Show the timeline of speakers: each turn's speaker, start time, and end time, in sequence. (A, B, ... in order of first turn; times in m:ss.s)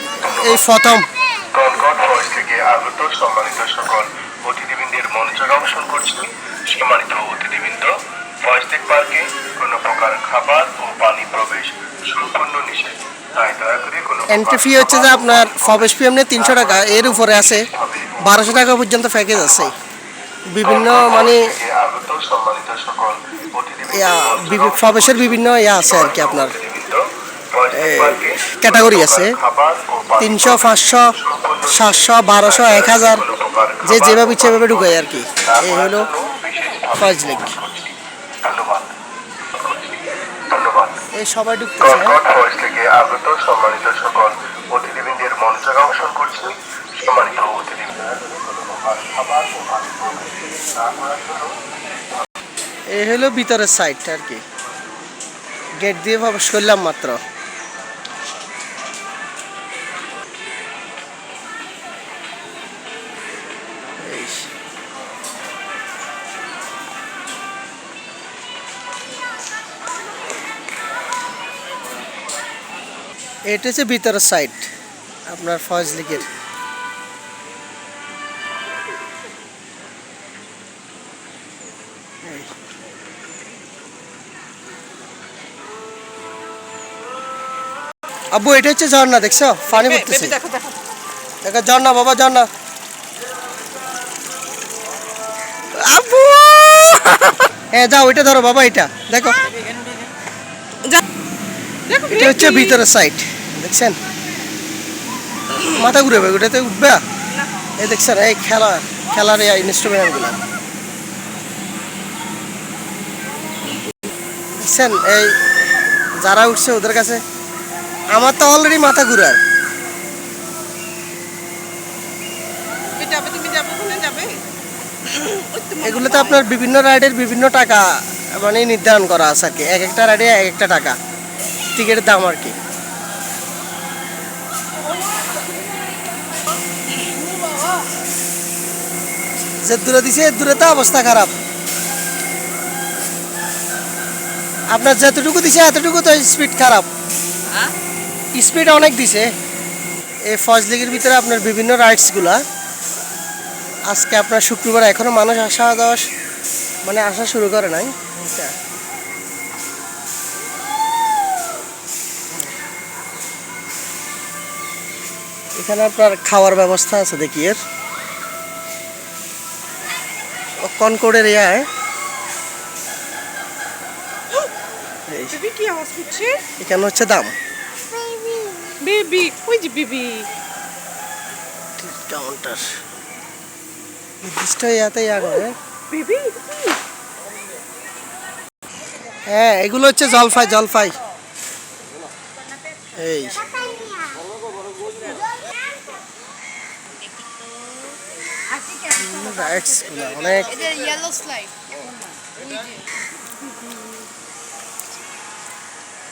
0:00.2-0:00.7 A
0:00.2-0:01.1 B
0:01.5-0:18.6 A
0:14.3-0:17.7 B
0:18.2-0:19.8 B
0:20.5-0:21.5 B
0:20.6-0:39.0 A
0:23.9-0:26.6 B
0:27.7-0:29.4 B
0:30.2-0:31.1 B
0:31.7-0:33.2 B
0:33.8-0:36.1 B
0:37.0-0:37.6 B
0:39.6-0:41.0 A
0:41.2-0:42.2 B
0:41.8-0:51.7 A
0:52.9-0:54.4 B
0:55.8-0:57.2 B
1:04.0-1:04.5 B
1:13.5-1:14.7 B
1:15.3-1:16.3 B
1:22.2-1:22.5 B
1:28.3-1:30.4 B
1:29.7-1:30.8 C
1:31.4-1:32.5 B
1:36.0-1:36.8 B
1:36.0-1:36.3 C
1:37.7-1:39.5 B
1:41.9-1:42.8 C
1:42.1-1:44.0 B
1:45.7-1:47.0 B
1:47.8-1:50.4 B
1:54.6-1:55.4 B
1:56.2-1:57.2 B
1:58.1-1:59.4 B
2:03.0-2:04.4 C
2:05.0-2:06.5 C
2:05.8-2:11.0 B
2:11.8-2:12.6 B
2:19.6-2:21.3 B
2:24.7-2:26.9 B
2:28.4-2:29.3 B
2:30.3-2:32.4 B
2:33.9-2:36.1 B
2:36.8-2:38.5 B
2:45.6-2:47.6 B
2:50.6-2:51.7 B
2:55.1-2:55.4 B
2:55.3-2:56.4 C
2:56.6-2:57.3 B
2:58.1-3:00.3 C
3:01.8-3:02.6 B
3:04.2-3:05.6 B
3:05.9-3:06.8 C
3:09.3-3:11.0 B
3:13.0-3:13.4 B
3:18.9-3:20.7 B
3:20.7-3:21.5 C